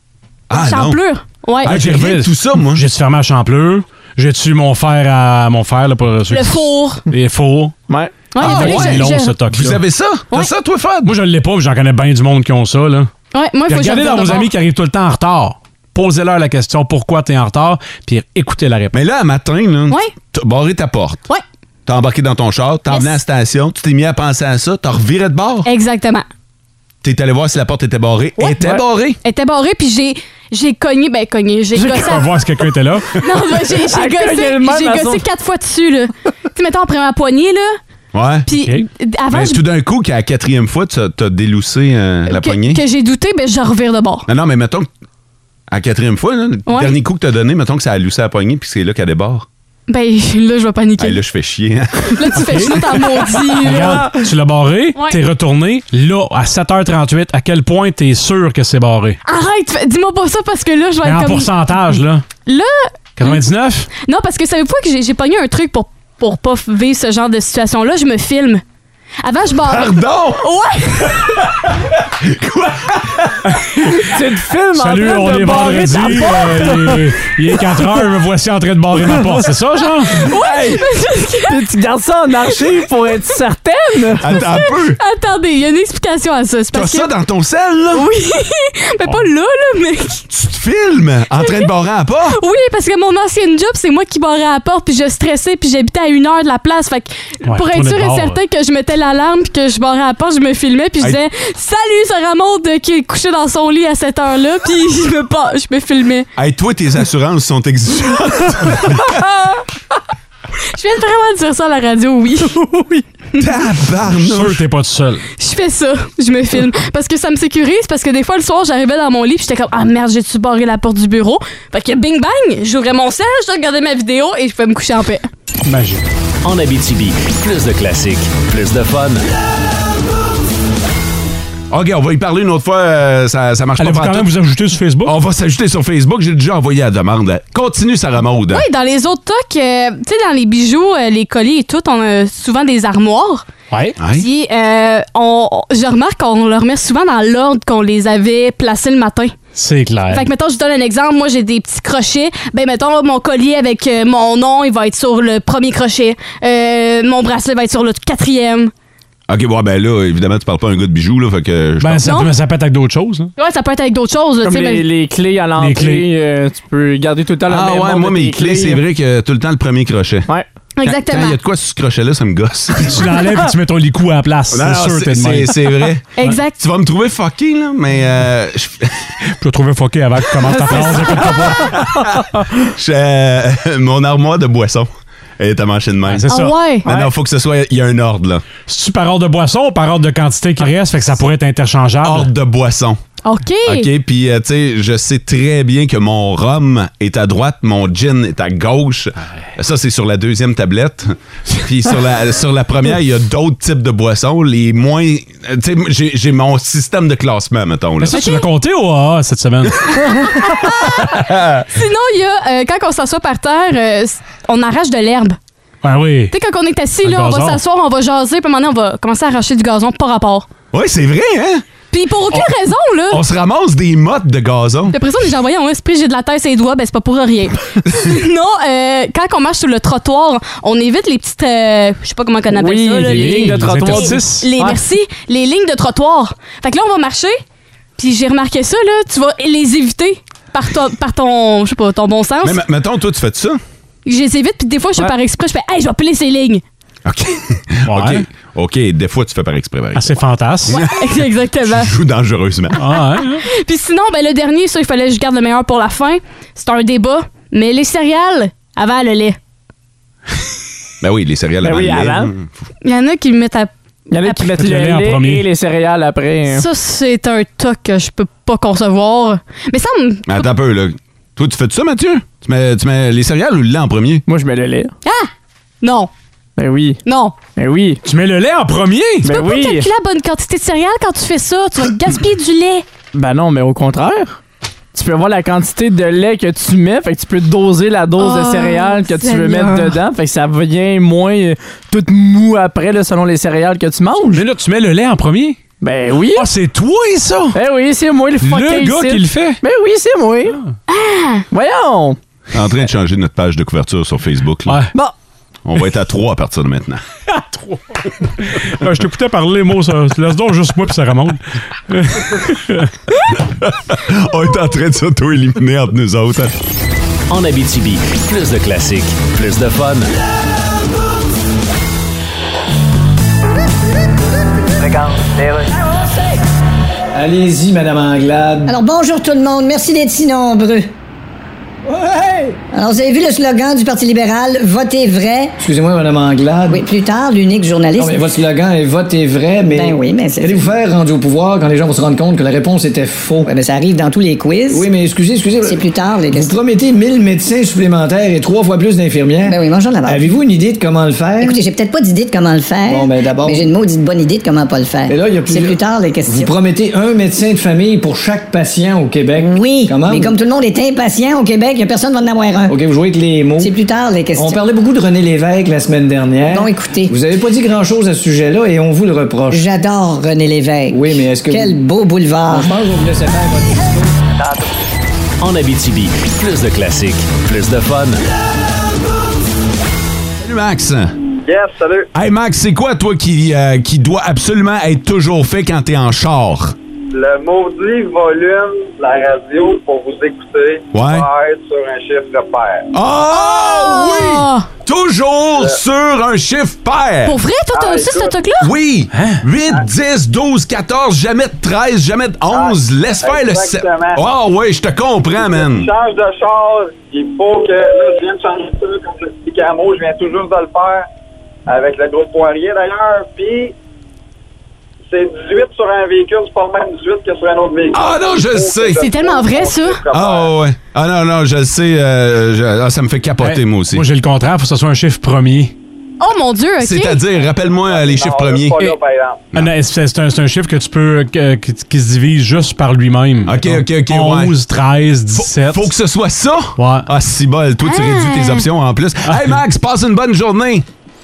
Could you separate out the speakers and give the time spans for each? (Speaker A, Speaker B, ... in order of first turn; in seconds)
Speaker A: 0.5-1.0, 1.6-2.9, 8.4-11.2, 18.9-21.2, 21.9-25.7, 27.0-29.2, 38.1-38.5, 39.3-42.8, 44.3-44.9, 45.7-49.5, 51.0-52.8, 69.6-73.9, 84.2-85.0, 86.7-88.1, 90.3-92.4, 106.3-109.2, 113.4-114.7, 131.7-134.3, 135.0-138.6, 144.0-144.2, 159.3-162.2, 167.5-170.3, 170.8-173.1, 174.5-179.0, 180.6-182.1, 182.7-186.3, 186.8-188.4, 192.0-193.0, 193.6-208.2, 211.1-211.6, 220.7-221.6, 223.1-224.9, 227.9-228.1, 242.4-243.6, 247.1-252.8, 261.0-262.5, 270.2-274.2, 302.5-304.8, 305.6-307.0, 313.4-316.5, 380.4-381.1, 382.1-386.8, 390.9-391.3, 392.9-397.4, 398.6-405.9, 417.9-419.0, 420.1-424.0, 426.8-428.8, 433.4-434.6, 435.3-440.9
Speaker B: 0.5-1.8, 6.3-7.0, 8.3-9.3, 13.3-14.5, 22.9-23.2, 25.6-26.2, 29.2-32.3, 33.2-37.8, 38.5-39.6, 42.3-44.3, 46.7-47.0, 49.9-51.2, 52.1-54.1, 59.2-61.5, 62.5-63.4, 64.0-68.6, 69.2-71.4, 80.1-81.6, 84.3-87.1, 87.9-90.2, 91.3-91.7, 92.3-106.3, 110.7-112.6, 115.4-125.3, 138.5-143.4, 144.1-149.3, 150.1-158.7, 162.0-162.3, 163.4-164.8, 170.8-171.4, 176.2-176.6, 186.3-186.9, 193.2-193.9, 208.1-208.4, 210.3-211.1, 211.7-215.4, 216.3-220.4, 221.9-223.2, 224.9-237.4, 238.0-242.6, 244.1-246.6, 250.7-251.9, 253.4-259.4, 262.8-264.5, 266.5-270.5, 275.0-275.3, 275.8-276.1, 277.1-277.4, 279.2-282.8, 288.2-290.0, 300.9-301.4, 393.4-394.7, 397.2-398.7, 419.0-420.0, 426.2-427.2, 437.8-438.6
Speaker C: 1.6-7.8, 8.4-9.8, 11.0-13.1, 13.7-18.9, 31.9-33.2, 52.4-52.9, 53.6-59.2, 61.0-62.2, 63.2-63.9, 74.7-80.3, 97.5-98.4, 114.1-115.2, 125.6-126.0, 133.8-135.1, 143.7-144.0, 149.5-150.3, 161.8-163.3, 165.6-166.1, 172.8-175.7, 179.4-181.8, 186.1-186.5, 188.7-192.3, 208.0-210.3, 215.8-216.3, 217.0-217.6, 233.0-234.5, 247.8-248.2, 249.9-250.8, 252.8-253.4, 264.5-265.4, 278.0-279.3, 294.3-295.6, 296.3-297.6, 298.4-299.6, 304.7-304.9, 307.3-312.9, 399.1-399.4, 423.4-425.7, 429.5-435.9, 436.8-437.1, 439.3-439.5
Speaker D: 7.9-8.3, 31.8-32.0, 33.9-35.2, 53.8-54.2, 74.0-77.1, 79.0-79.4, 81.5-84.3, 112.5-113.0, 164.4-168.8, 186.8-187.1, 232.5-234.8, 261.6-262.3, 264.1-266.6, 274.3-274.9, 276.6-277.0, 277.6-278.0, 279.2-279.9, 283.1-284.4, 284.9-294.4, 295.8-296.5, 297.5-300.6, 301.5-302.2
Speaker E: 126.4-129.2, 317.3-320.1, 375.4-378.2
Speaker F: 327.1-328.7, 331.9-332.6, 335.6-336.9, 338.0-343.5, 344.7-351.6, 352.9-353.7, 355.1-360.3, 362.7-363.7, 364.3-369.7, 370.9-371.8, 372.4-374.1
Speaker G: 328.7-330.9, 332.7-335.5, 336.7-338.2, 339.7-340.7, 343.5-344.9, 345.6-346.5, 349.4-350.3, 351.4-356.5, 359.4-362.7, 363.6-364.6, 366.5-367.1, 369.5-372.7
Speaker H: 381.4-382.1, 387.1-392.9, 397.7-398.4, 402.5-404.2, 405.4-411.1, 411.7-413.7, 415.1-420.5, 427.7-429.5